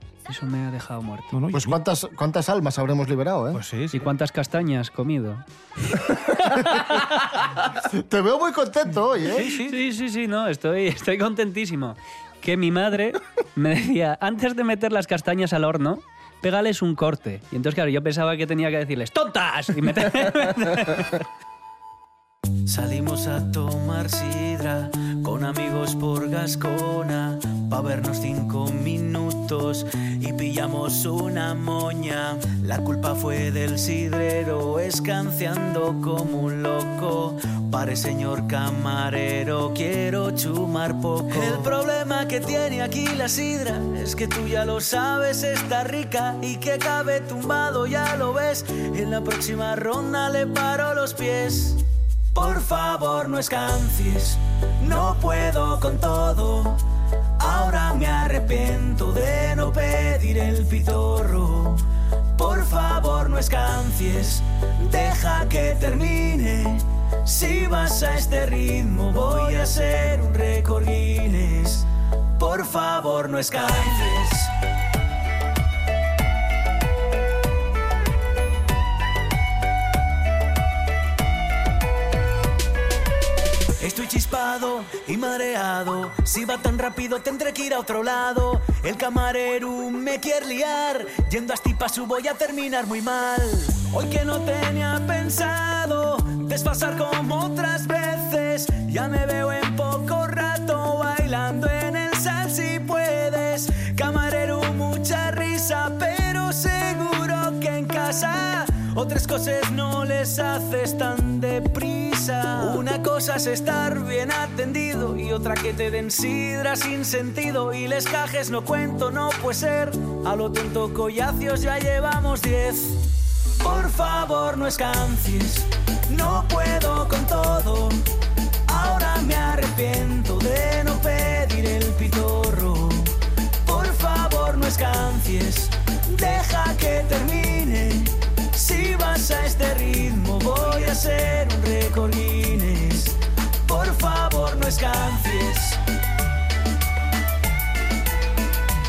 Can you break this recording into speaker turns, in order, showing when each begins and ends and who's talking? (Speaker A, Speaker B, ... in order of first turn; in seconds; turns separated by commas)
Speaker A: 0.3-1.4, Speaker B: 1.3-1.8, Speaker C: 1.5-3.6, Speaker B: 3.5-4.0, Speaker A: 3.9-5.4, Speaker C: 8.1-9.5, Speaker B: 9.4-9.7, Speaker A: 9.6-21.0, Speaker B: 22.7-51.8, Speaker B: 52.3-56.8, Speaker B: 57.4-61.8, Speaker B: 62.4-71.8, Speaker B: 72.4-74.5, Speaker B: 83.8-123.0, Speaker B: 123.6-128.0, Speaker B: 128.7-133.1, Speaker B: 133.7-143.1, Speaker B: 143.7-145.8